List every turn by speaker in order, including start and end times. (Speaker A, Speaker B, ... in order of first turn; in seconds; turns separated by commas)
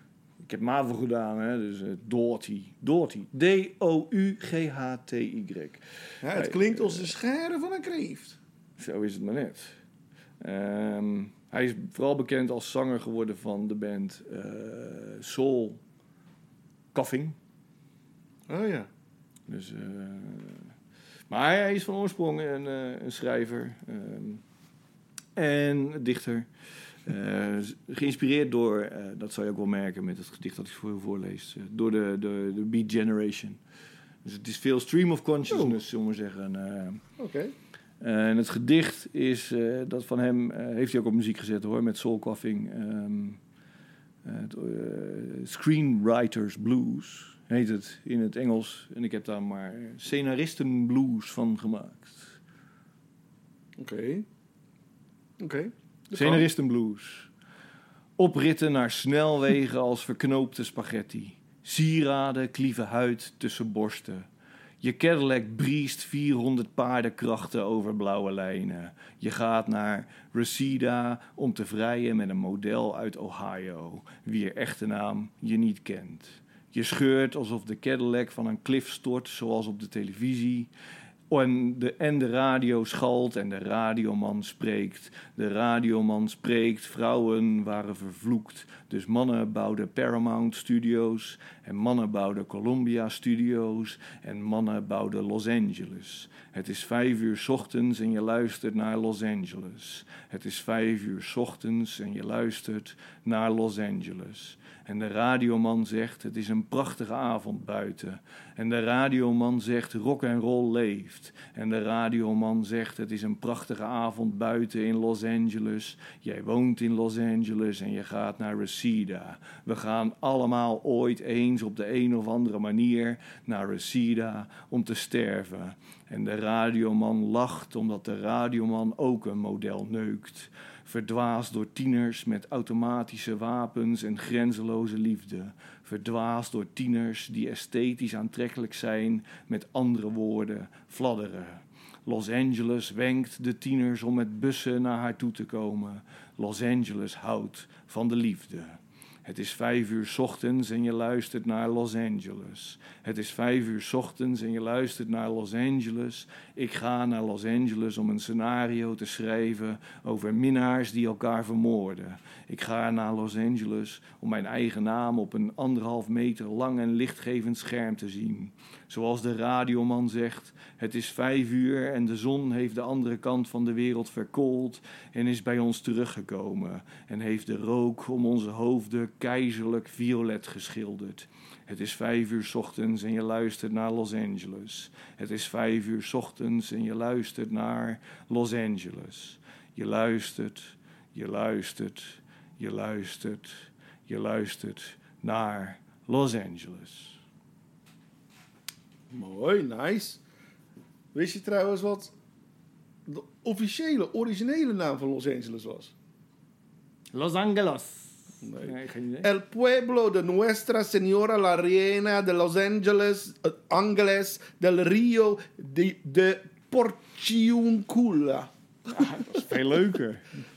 Speaker A: 0.4-7.1, Speaker B: 6.2-8.4, Speaker A: 8.8-9.8, Speaker A: 10.4-15.8, Speaker A: 16.9-17.4, Speaker B: 18.5-18.9, Speaker A: 19.5-20.7, Speaker A: 21.3-24.4, Speaker A: 25.4-26.5, Speaker A: 27.1-33.6, Speaker A: 34.2-37.0, Speaker B: 35.5-35.8, Speaker B: 37.2-37.5, Speaker A: 38.0-43.4, Speaker A: 44.2-52.4, Speaker B: 53.8-54.2, Speaker B: 55.4-56.5, Speaker A: 56.1-57.3, Speaker A: 58.2-64.3, Speaker A: 64.8-80.7, Speaker A: 81.3-197.2, Speaker B: 199.1-200.2, Speaker B: 201.1-202.1, Speaker B: 203.1-205.9, Speaker A: 207.1-209.3, Speaker B: 208.4-219.4, Speaker A: 218.9-220.2